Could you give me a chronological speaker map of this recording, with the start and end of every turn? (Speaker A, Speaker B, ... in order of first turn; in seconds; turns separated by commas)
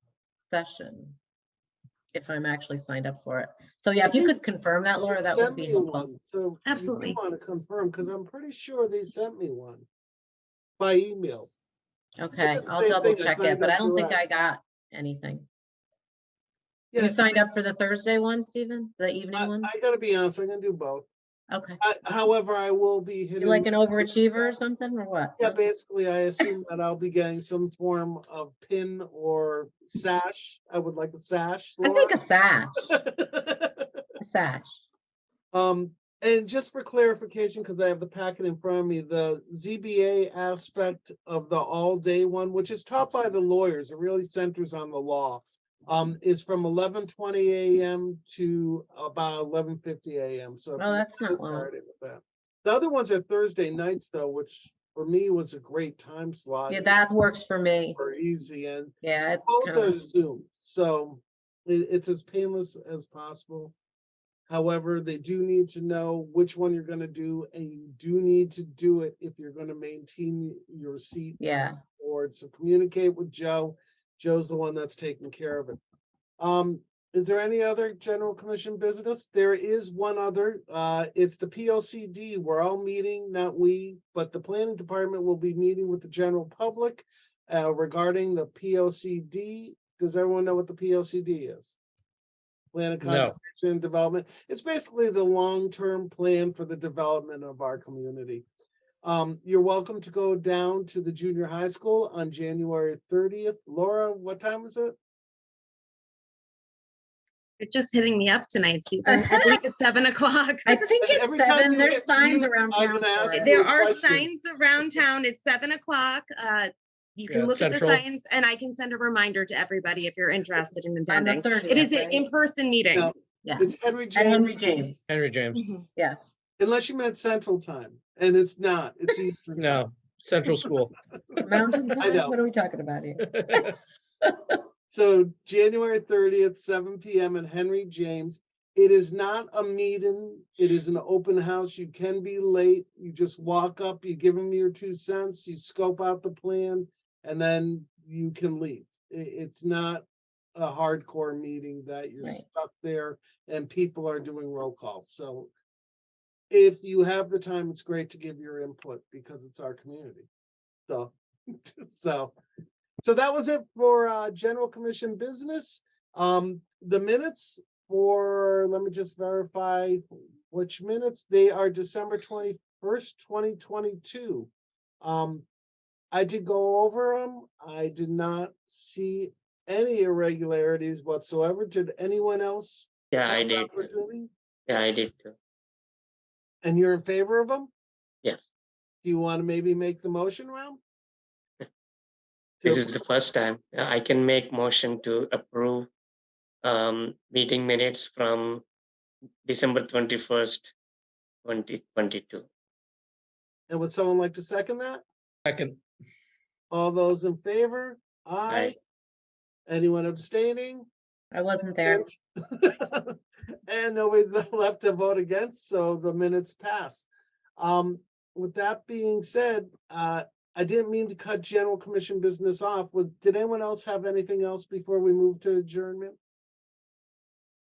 Speaker A: 0.5-1.2, Speaker A: 2.1-6.1, Speaker B: 4.0-9.9, Speaker C: 6.7-7.2, Speaker B: 10.8-11.5, Speaker A: 12.2-15.5, Speaker B: 12.4-14.2, Speaker B: 16.9-17.2, Speaker A: 17.0-19.7, Speaker B: 19.3-21.1, Speaker A: 21.5-21.8, Speaker B: 21.8-24.6, Speaker A: 23.4-25.6, Speaker B: 25.4-32.2, Speaker A: 31.8-32.9, Speaker B: 32.9-34.0, Speaker A: 34.2-34.8, Speaker B: 35.5-57.0, Speaker A: 50.8-51.7, Speaker A: 56.7-58.0, Speaker B: 58.0-63.8, Speaker A: 59.0-60.0, Speaker B: 64.5-75.8, Speaker A: 71.4-71.8, Speaker B: 76.4-91.8, Speaker B: 92.7-98.5, Speaker D: 93.0-93.3, Speaker B: 99.0-105.0, Speaker C: 107.6-110.8, Speaker A: 109.1-109.5, Speaker A: 110.7-113.6, Speaker B: 111.0-114.3, Speaker C: 113.4-123.1, Speaker D: 117.3-118.0, Speaker A: 121.1-122.3, Speaker B: 122.9-124.6, Speaker A: 123.4-125.0, Speaker D: 125.1-125.7, Speaker C: 125.5-125.8, Speaker B: 126.6-129.9, Speaker D: 129.6-131.9, Speaker A: 131.4-133.7, Speaker B: 132.0-132.4, Speaker D: 133.2-133.7, Speaker A: 134.3-134.6, Speaker B: 134.9-155.5, Speaker B: 156.5-160.3, Speaker B: 160.9-162.3, Speaker B: 163.0-174.5, Speaker B: 175.0-175.5, Speaker B: 176.1-184.3, Speaker E: 183.1-183.9, Speaker E: 184.7-185.4, Speaker B: 186.6-187.7, Speaker B: 189.0-190.8, Speaker B: 192.6-193.1, Speaker E: 192.7-195.9, Speaker E: 196.6-198.6, Speaker E: 199.4-200.7, Speaker E: 201.4-202.5, Speaker B: 203.7-205.0, Speaker D: 205.5-205.8, Speaker B: 206.7-208.8, Speaker E: 208.5-208.7, Speaker B: 209.7-210.9, Speaker A: 211.3-212.1, Speaker B: 211.8-213.2, Speaker B: 213.7-217.1, Speaker B: 217.6-226.2